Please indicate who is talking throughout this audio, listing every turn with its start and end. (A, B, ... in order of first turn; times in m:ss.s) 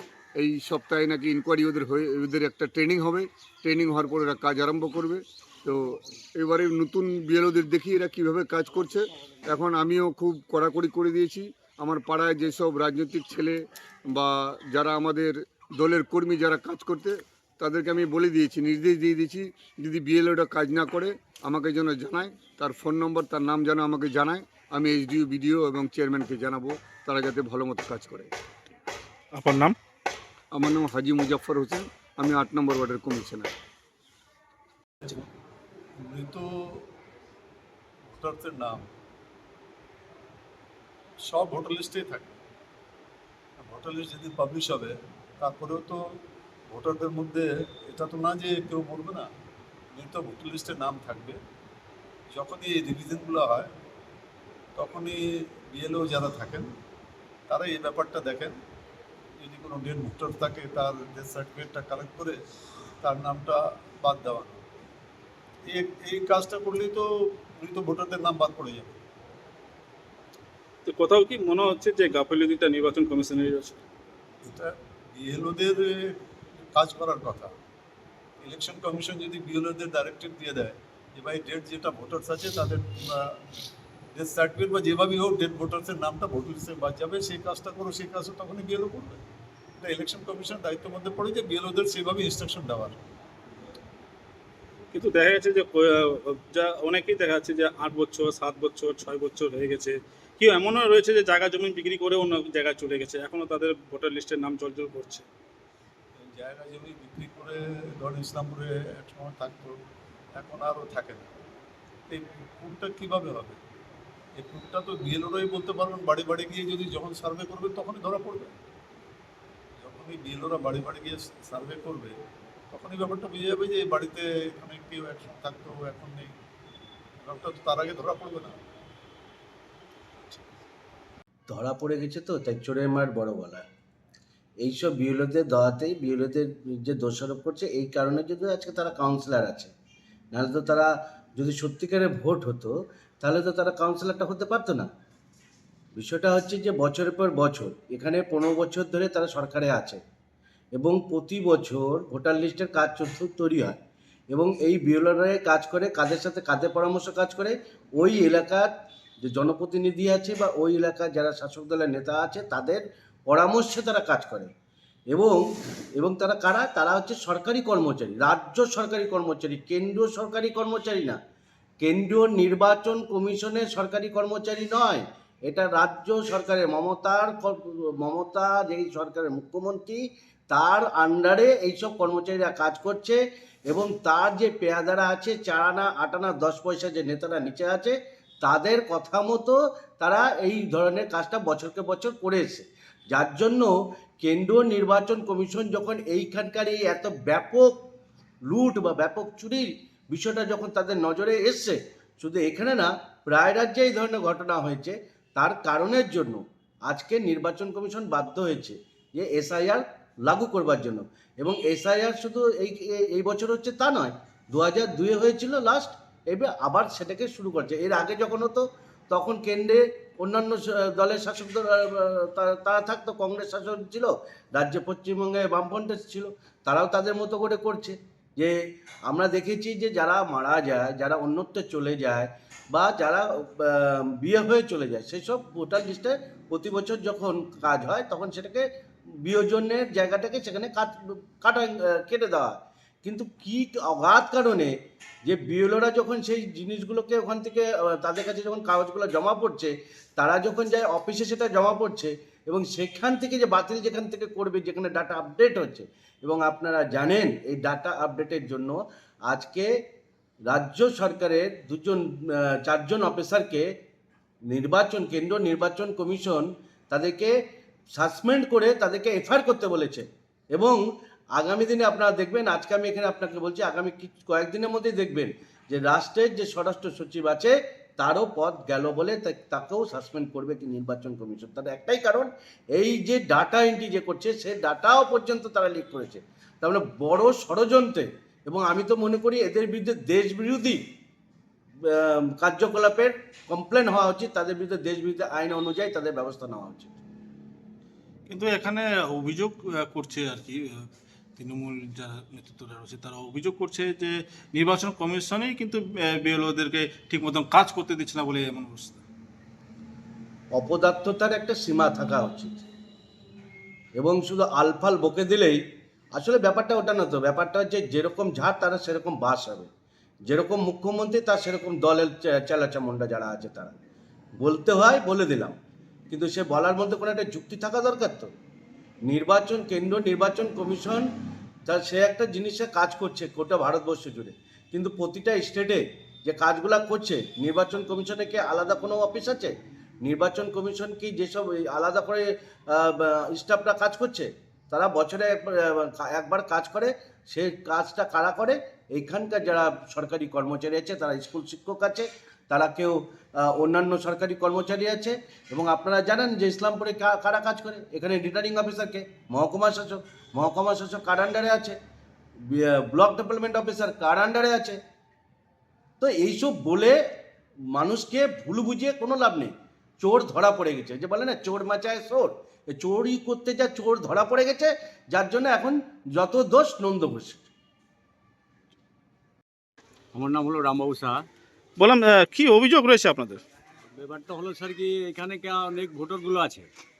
0:00.4-0:28.3 A
0:29.3-0:29.7 B
0:30.5-0:33.5 A
0:36.0-0:36.9 C
0:38.1-0:38.8 C
0:41.2-0:42.4 C
0:43.6-0:46.0 C
0:46.7-0:49.3 C
0:49.9-0:51.4 C
0:52.3-0:53.7 C
0:54.8-0:56.7 C
0:57.5-0:58.6 C
0:59.4-1:02.4 C
1:03.0-1:04.6 C
1:05.7-1:09.0 C
1:10.8-1:13.8 B
1:14.4-1:16.2 C
1:16.7-1:17.5 C
1:18.4-1:23.4 C
1:24.1-1:29.2 C
1:29.8-1:33.0 C
1:34.9-1:45.2 B
1:46.2-1:49.8 C
1:50.3-1:51.3 C
1:52.1-1:53.6 C
1:54.4-1:58.6 C
1:59.8-2:02.2 C
2:02.7-2:06.3 C
2:07.2-2:08.6 C
2:11.5-2:13.6 D
2:14.6-2:19.7 D
2:20.3-2:24.9 D
2:26.0-2:30.0 D
2:30.8-2:33.8 D
2:34.3-2:38.7 D
2:39.2-2:44.5 D
2:45.1-2:45.4 D
2:46.0-2:51.2 D
2:51.8-3:13.7 D
3:14.2-3:17.7 D
3:18.5-3:48.5 D
3:49.1-3:58.6 D
3:59.2-4:04.7 D
4:05.2-4:18.8 D
4:19.3-4:19.7 D
4:20.5-4:23.6 D
4:24.5-4:27.3 D
4:28.0-4:30.8 D
4:31.4-4:50.8 D
4:51.9-4:56.9 D
4:58.3-5:00.8 B
5:01.4-5:09.0 B
5:10.5-5:12.6 D
5:14.0-5:15.6 D
5:16.2-5:19.7 D
5:20.3-5:23.7 D
5:24.4-5:25.6 D
5:26.1-5:28.3 D
5:29.1-5:31.0 D
5:31.7-5:39.5 D
5:40.0-6:01.7 D
6:02.5-6:04.8 D
6:06.0-6:07.0 D
6:07.8-6:17.4 D
6:20.1-6:21.2 E
6:21.8-6:23.4 B
6:23.9-6:26.7 E